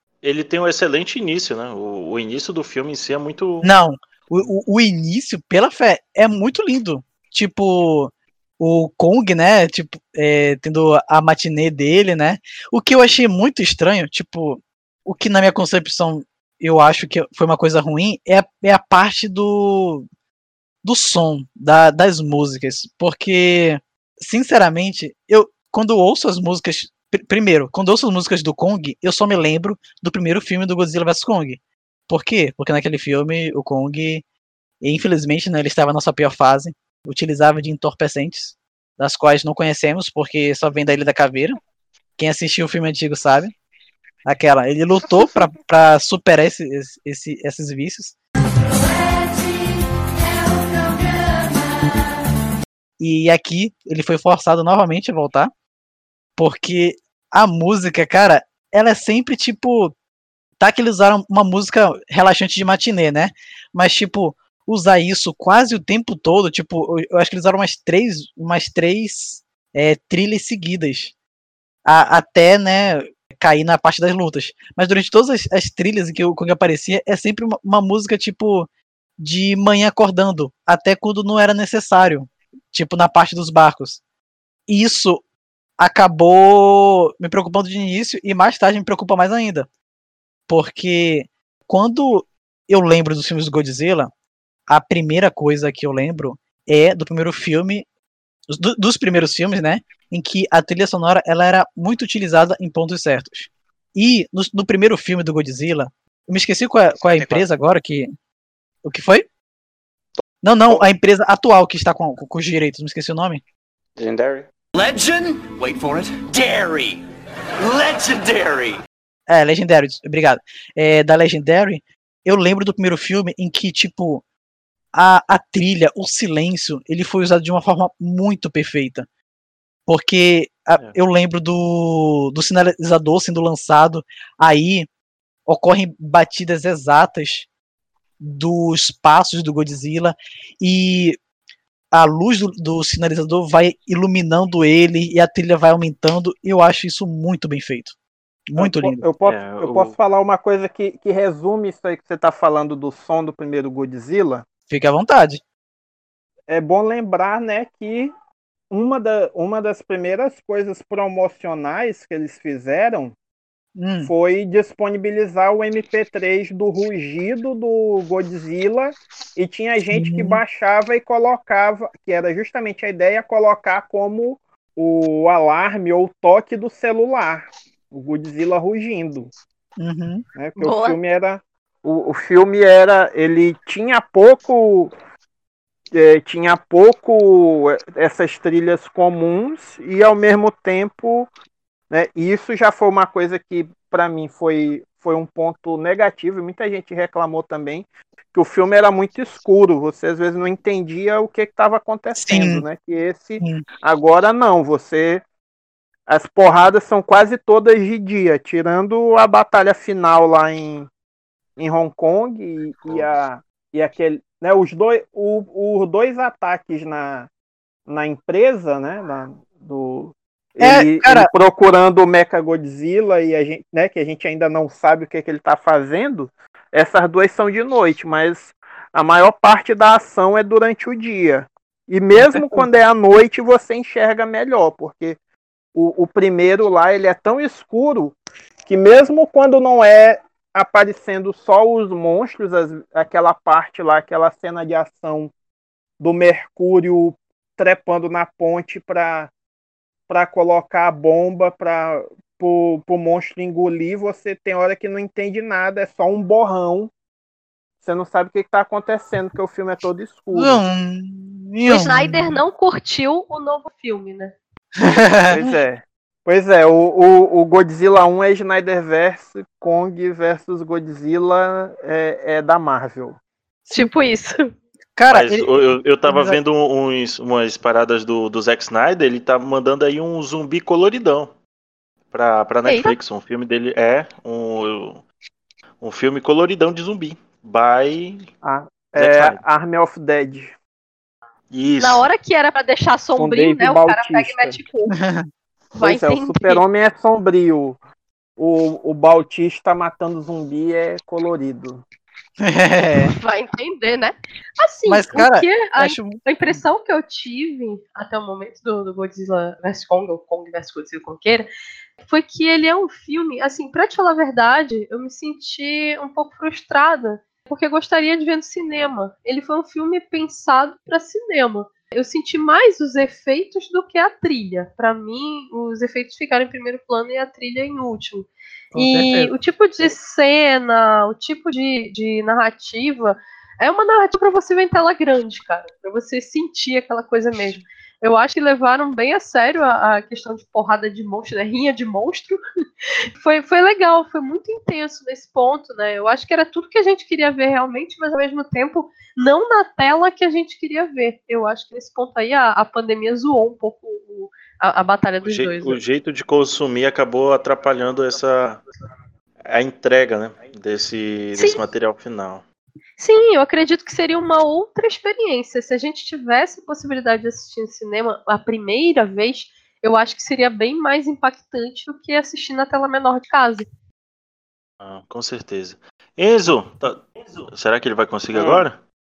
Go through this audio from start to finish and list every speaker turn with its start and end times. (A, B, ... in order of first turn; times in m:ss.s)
0:00.2-0:03.7 A
0:03.6-0:20.1 B
0:20.8-0:34.2 B
0:34.8-0:41.6 B
0:42.2-0:43.5 B
0:44.2-0:48.2 B
0:53.0-0:55.5 B
0:56.4-0:59.9 B
1:00.6-1:11.1 B
1:11.8-1:18.7 B
1:19.2-1:24.0 B
1:24.7-1:25.2 B
1:25.8-1:29.7 B
1:30.5-1:34.1 B
1:34.7-1:37.8 B
1:38.5-1:48.1 B
1:47.0-1:47.5 C
1:48.8-1:49.2 B
1:50.2-1:50.9 C
1:50.4-1:53.4 B
1:54.0-1:54.5 C
1:54.7-1:57.0 D
1:57.6-1:58.8 D
1:59.3-2:04.2 B
2:04.9-2:09.1 B
2:09.9-2:14.9 B
2:15.5-2:17.5 B
2:18.2-2:21.2 B
2:21.9-2:28.0 B
2:28.5-2:29.0 B
2:28.6-2:34.4 E
2:29.2-2:30.0 A
2:34.7-2:35.4 B
2:36.5-2:38.1 E
2:38.7-2:43.1 E
2:43.8-2:44.1 B
2:44.0-2:59.3 E
2:49.9-2:50.4 B
2:59.8-3:00.2 B
3:00.3-3:04.9 E
3:00.6-3:01.0 F
3:05.9-3:11.3 E
3:11.9-3:25.2 E
3:22.1-3:22.6 B
3:23.4-3:23.6 B
3:26.1-3:30.9 E
3:31.6-3:37.3 E
3:37.9-3:55.2 E
3:40.6-3:41.3 B
3:52.2-3:52.6 B
3:55.7-4:05.3 E
4:06.0-4:09.3 E
4:10.1-4:16.9 E
4:17.8-4:20.6 E
4:20.3-4:22.4 B
4:21.7-4:24.3 F
4:24.8-4:25.4 B
4:25.3-4:33.2 E
4:33.7-4:34.5 F
4:35.0-4:35.5 B
4:35.1-4:41.3 A
4:36.1-4:36.4 B
4:42.1-4:45.0 A
4:42.6-4:43.0 F
4:45.8-4:48.3 A
4:48.4-4:50.5 E
4:49.0-4:49.4 A
4:51.5-4:52.1 A
4:51.8-4:55.0 F
4:53.2-4:54.6 E
4:54.9-4:55.3 B
4:55.8-4:56.6 F
4:55.8-4:57.8 E
4:58.4-5:01.8 E
5:02.4-5:03.1 B
5:03.2-5:11.5 F
5:04.8-5:06.6 B
5:12.0-5:42.4 F
5:28.7-5:29.3 B
5:43.2-5:55.8 F
5:55.2-5:58.6 A
5:59.5-6:02.4 A
6:01.4-6:01.6 F
6:03.0-6:13.7 F
6:14.8-6:18.8 A
6:18.3-6:18.7 C